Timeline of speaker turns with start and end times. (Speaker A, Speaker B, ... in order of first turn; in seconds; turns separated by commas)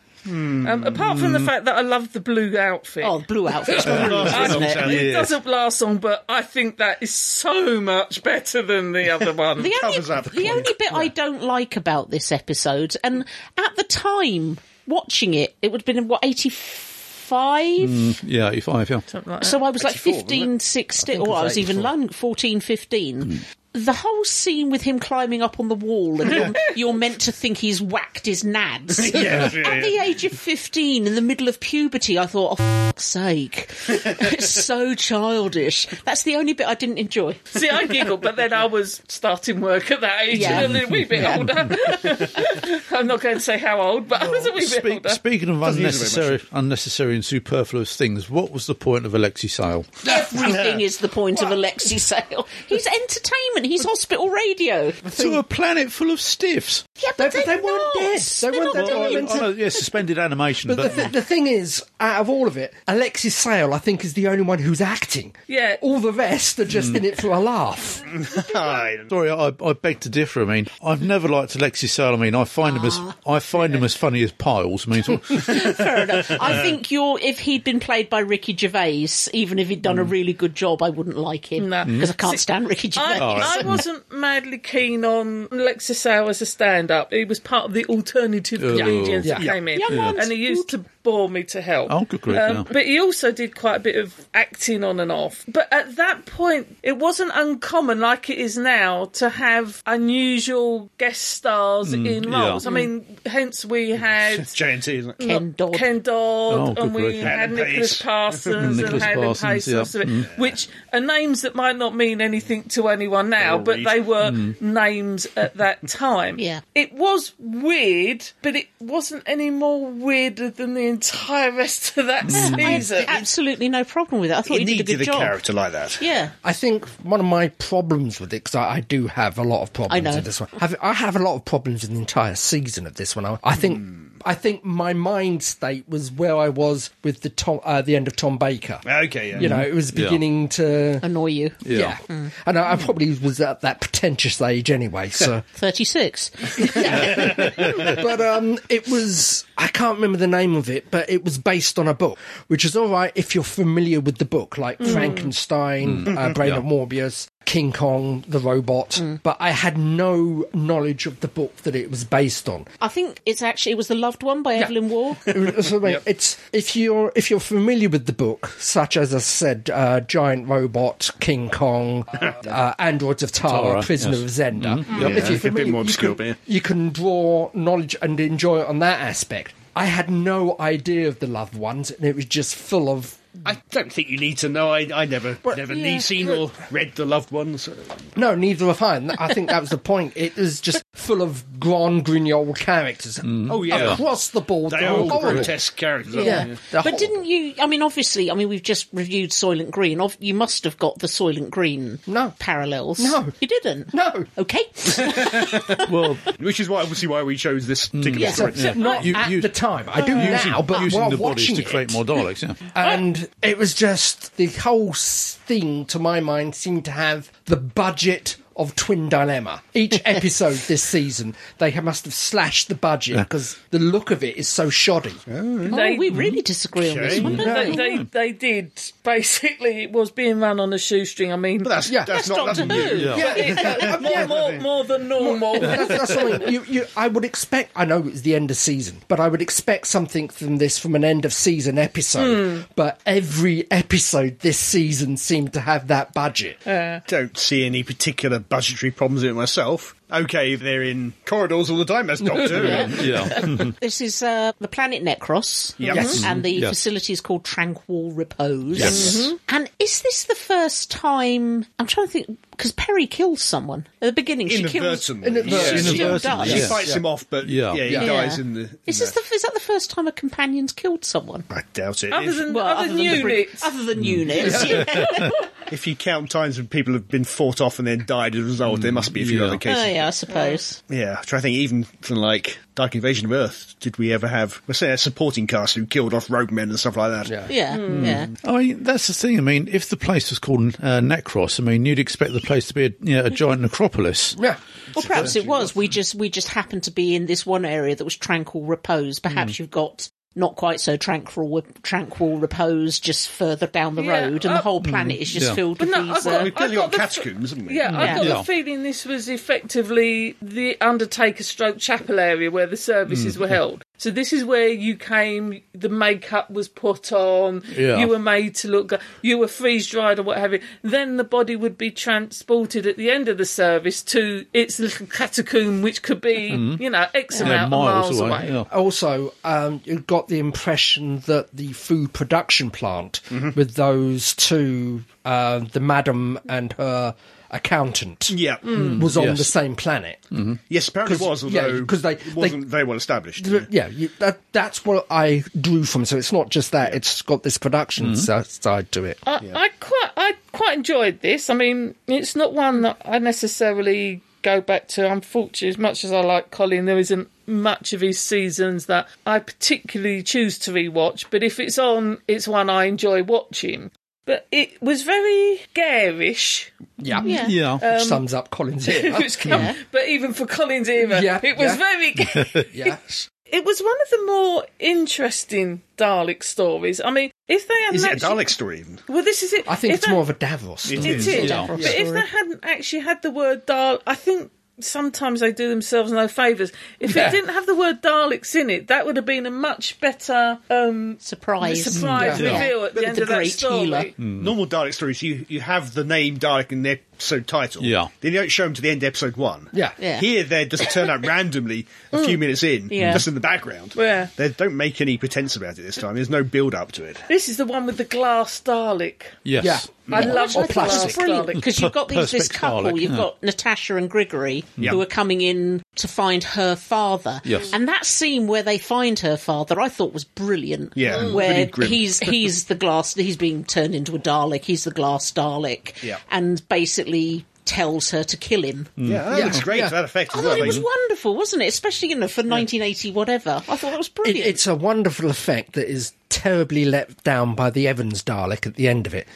Speaker A: 0.2-1.0, Speaker B: 0.6-3.2, Speaker C: 1.1-1.5, Speaker D: 3.0-4.9, Speaker A: 3.7-5.1, Speaker C: 3.9-5.3, Speaker B: 4.2-9.7, Speaker D: 9.6-18.2, Speaker A: 9.7-11.1, Speaker C: 17.8-19.0, Speaker B: 19.1-19.6, Speaker D: 19.4-37.5, Speaker A: 19.8-20.5, Speaker E: 21.0-21.8, Speaker A: 28.9-30.0, Speaker B: 37.5-45.2, Speaker D: 40.3-41.9, Speaker C: 40.4-41.5, Speaker C: 44.2-50.1, Speaker A: 45.6-46.4, Speaker D: 50.0-55.4, Speaker C: 55.1-56.8, Speaker D: 57.0-59.9, Speaker E: 57.2-59.5, Speaker C: 58.7-61.1, Speaker E: 60.6-68.0, Speaker B: 65.5-65.8, Speaker A: 68.0-69.1, Speaker C: 69.1-75.8, Speaker D: 72.6-73.2, Speaker D: 75.4-83.8, Speaker B: 81.6-82.4, Speaker C: 81.8-82.1, Speaker B: 82.9-104.6, Speaker C: 83.2-83.8, Speaker C: 88.6-90.2, Speaker E: 88.7-89.5, Speaker D: 89.7-90.7, Speaker C: 91.9-92.7, Speaker C: 101.8-102.6, Speaker D: 102.6-102.9, Speaker A: 104.1-105.2, Speaker B: 105.2-123.2, Speaker D: 105.2-105.9, Speaker C: 106.5-107.4, Speaker A: 107.2-109.0, Speaker C: 108.6-110.3, Speaker A: 110.2-110.5, Speaker A: 113.4-114.1, Speaker C: 114.2-114.5, Speaker C: 122.3-123.0, Speaker D: 122.3-125.4, Speaker A: 124.5-126.1, Speaker D: 126.0-126.3, Speaker E: 126.4-141.1, Speaker D: 129.9-130.3, Speaker A: 138.8-139.6, Speaker C: 139.4-140.2, Speaker D: 141.0-142.3, Speaker C: 141.6-142.0, Speaker E: 141.7-145.4, Speaker D: 145.5-147.1, Speaker E: 146.5-162.7, Speaker C: 147.5-147.8, Speaker B: 154.8-155.3, Speaker C: 155.9-156.6, Speaker D: 162.8-165.4, Speaker E: 164.6-183.4, Speaker C: 173.4-175.3, Speaker A: 174.9-176.3, Speaker A: 183.4-188.1, Speaker E: 188.1-195.5, Speaker C: 193.2-194.0, Speaker A: 193.4-194.1, Speaker A: 194.7-196.6, Speaker C: 194.9-195.5, Speaker D: 196.1-206.1, Speaker E: 196.1-197.2, Speaker E: 202.1-202.4, Speaker E: 202.9-203.3, Speaker E: 203.9-204.3, Speaker A: 205.0-205.6, Speaker C: 205.8-206.2, Speaker A: 206.4-208.8, Speaker C: 207.9-212.6, Speaker D: 208.2-208.5, Speaker E: 208.2-212.0, Speaker B: 208.7-209.0, Speaker E: 212.7-225.2, Speaker A: 225.3-225.8, Speaker D: 225.7-227.8, Speaker B: 225.7-226.3, Speaker C: 226.1-226.4, Speaker A: 226.8-227.4, Speaker C: 227.2-228.0, Speaker B: 227.2-231.8, Speaker E: 227.3-227.8, Speaker A: 231.6-234.6, Speaker E: 231.8-234.4, Speaker D: 232.1-233.4, Speaker C: 232.9-233.2, Speaker B: 233.0-236.3, Speaker E: 235.2-246.6, Speaker B: 242.2-242.6, Speaker B: 246.7-247.0, Speaker A: 247.1-253.3, Speaker D: 252.5-266.8, Speaker C: 252.9-253.7, Speaker A: 255.8-256.2, Speaker B: 255.9-256.2, Speaker C: 256.1-256.8, Speaker C: 258.8-259.1, Speaker E: 258.8-259.2, Speaker B: 258.8-259.4, Speaker A: 264.4-269.1, Speaker E: 265.2-267.0, Speaker C: 265.5-267.9, Speaker E: 267.8-268.1, Speaker D: 268.0-271.4, Speaker A: 271.5-272.5, Speaker B: 272.1-273.7, Speaker D: 272.4-275.4, Speaker C: 274.0-275.3, Speaker E: 274.3-274.9, Speaker A: 275.7-280.1, Speaker C: 278.7-279.6, Speaker D: 279.6-280.8, Speaker B: 280.3-280.6, Speaker A: 280.9-287.4, Speaker E: 287.2-287.5, Speaker D: 287.5-288.3, Speaker B: 287.7-288.2, Speaker C: 287.8-294.4, Speaker D: 294.9-306.5, Speaker A: 294.9-295.9, Speaker B: 304.0-304.7, Speaker C: 304.8-305.6, Speaker B: 305.8-328.6, Speaker A: 306.2-307.9, Speaker C: 307.9-308.5, Speaker D: 308.0-308.3, Speaker C: 313.1-313.5, Speaker C: 317.7-318.1, Speaker C: 326.5-326.8, Speaker D: 327.3-327.6, Speaker C: 327.4-328.7, Speaker E: 328.7-340.3, Speaker A: 338.3-338.8, Speaker C: 338.7-339.5, Speaker A: 340.7-343.7, Speaker E: 341.0-342.6, Speaker E: 343.4-349.2, Speaker B: 349.2-368.2, Speaker E: 367.0-369.7, Speaker D: 367.2-367.5, Speaker C: 367.3-367.8, Speaker B: 368.9-378.4, Speaker D: 369.4-369.8, Speaker E: 371.0-371.8, Speaker E: 372.7-373.0, Speaker A: 377.9-379.0, Speaker B: 379.1-380.2, Speaker E: 379.6-382.0, Speaker A: 380.9-381.5, Speaker B: 381.0-394.1, Speaker C: 381.2-381.8, Speaker D: 381.4-382.2, Speaker D: 391.2-394.1, Speaker C: 391.9-392.6, Speaker E: 392.1-392.6, Speaker C: 394.2-394.6, Speaker A: 394.4-407.2, Speaker C: 397.8-398.1, Speaker D: 400.0-400.3, Speaker D: 402.9-403.2, Speaker C: 403.0-403.2, Speaker B: 403.9-404.3, Speaker B: 407.3-409.4, Speaker C: 409.4-409.9, Speaker E: 409.6-411.2, Speaker B: 410.1-411.6, Speaker D: 410.1-429.0, Speaker C: 411.7-413.2, Speaker C: 417.4-417.7, Speaker A: 420.9-422.5, Speaker B: 421.1-421.4, Speaker C: 429.0-429.6, Speaker A: 429.0-430.8, Speaker E: 429.3-429.9, Speaker D: 430.3-434.6, Speaker C: 430.5-430.8, Speaker E: 434.2-439.3